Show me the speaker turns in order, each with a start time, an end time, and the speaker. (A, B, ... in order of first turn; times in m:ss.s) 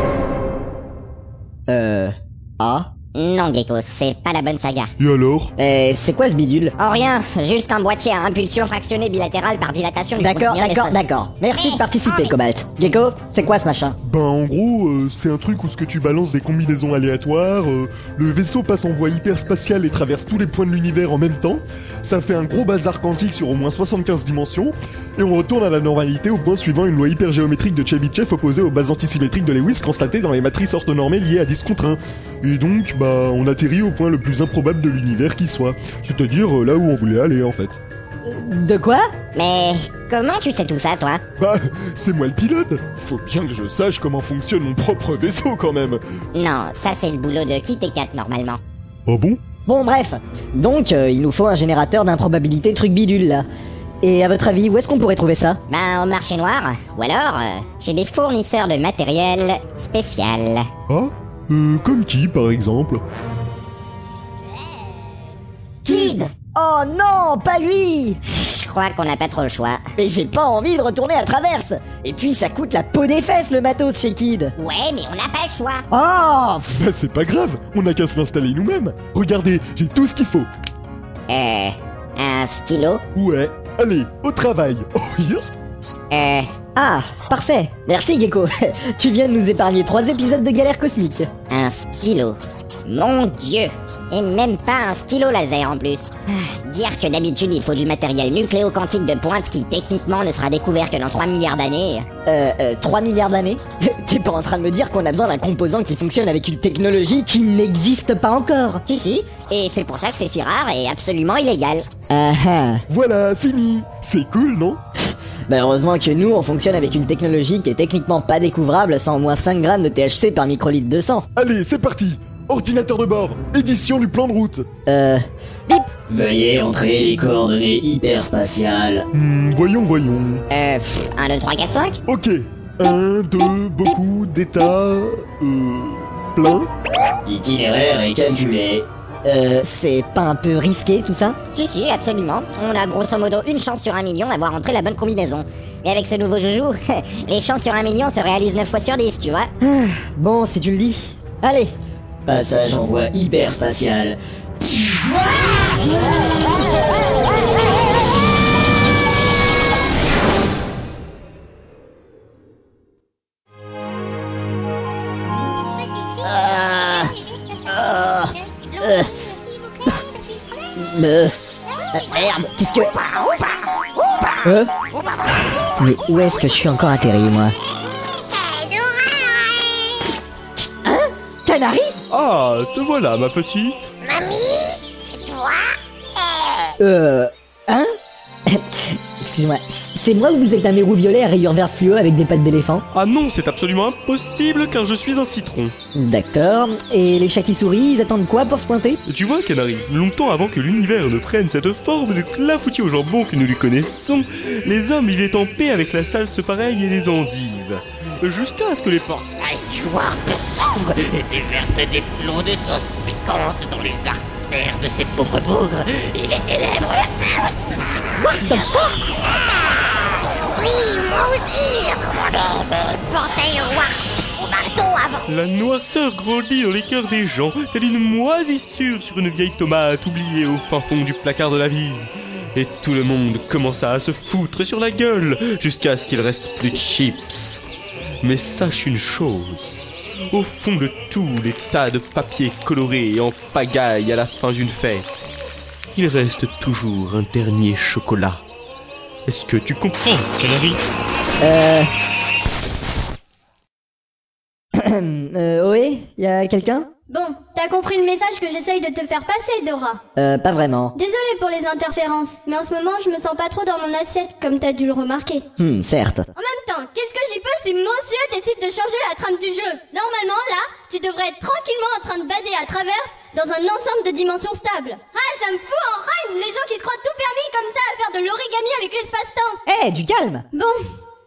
0:01.7-0:02.9 A
0:03.2-0:04.9 B
0:05.0-0:05.5 C
0:05.6-0:06.8 A
0:06.8-0:11.0 B
0:10.2-0:14.0 A
0:11.6-0:12.3 B
0:14.0-0:37.8 C
0:38.2-0:39.1 A
0:39.4-0:41.2 B
0:41.4-0:46.0 C
0:46.3-0:48.6 B
0:49.1-0:49.4 C
0:49.7-0:53.4 A
0:54.0-0:55.6 A
0:55.7-1:00.7 B
1:00.9-1:03.0 C
1:05.9-1:06.3 B
1:05.9-1:08.2 A
1:08.3-1:09.9 B
1:10.0-1:14.5 A
1:14.6-1:15.8 B
1:15.9-1:16.8 A
1:16.7-1:20.5 C
1:21.3-1:23.0 B
1:23.1-1:25.5 C
1:26.1-1:26.5 B
1:26.8-1:31.3 A
1:31.5-1:42.1 B
1:42.3-1:48.8 A
1:48.9-1:51.9 B
1:52.1-1:52.8 A
1:52.9-1:54.8 C
1:55.5-2:01.3 A
2:01.4-2:04.7 C
2:04.9-2:05.8 A
2:06.1-2:09.1 D
2:09.1-2:10.5 C
2:10.5-2:12.0 B
2:12.1-2:16.7 C
2:17.3-2:19.5 D
2:19.4-2:21.4 A
2:21.5-2:29.5 B
2:29.6-2:31.7 A
2:32.3-2:34.2 D
2:46.2-2:47.1 A
2:47.7-2:49.1 A
2:50.8-2:51.4 A
2:51.9-2:53.0 A
2:54.4-2:54.7 A
2:55.8-2:57.6 A
2:58.4-2:59.7 B
3:00.6-3:02.0 A
3:02.1-3:03.9 E
3:04.0-3:06.7 B
3:06.8-3:07.9 A
3:08.5-3:12.8 A
3:12.9-3:15.7 E
3:16.0-3:19.0 A
3:19.1-3:29.3 E
3:29.5-3:37.3 F
3:33.2-3:33.6 B
3:35.5-3:35.7 B
3:38.2-3:38.9 A
3:40.6-3:45.2 B
3:45.3-3:57.6 E
3:58.2-3:59.8 E
4:00.3-4:05.3 E
4:05.9-4:08.4 E
4:09.3-4:10.8 E
4:11.4-4:11.9 A
4:14.8-4:16.9 A
4:17.1-4:20.0 G
4:20.2-4:20.9 A
4:21.0-4:25.4 G
4:25.6-4:26.3 A
4:26.4-4:39.6 G
4:39.7-4:40.4 A
4:40.5-4:40.8 G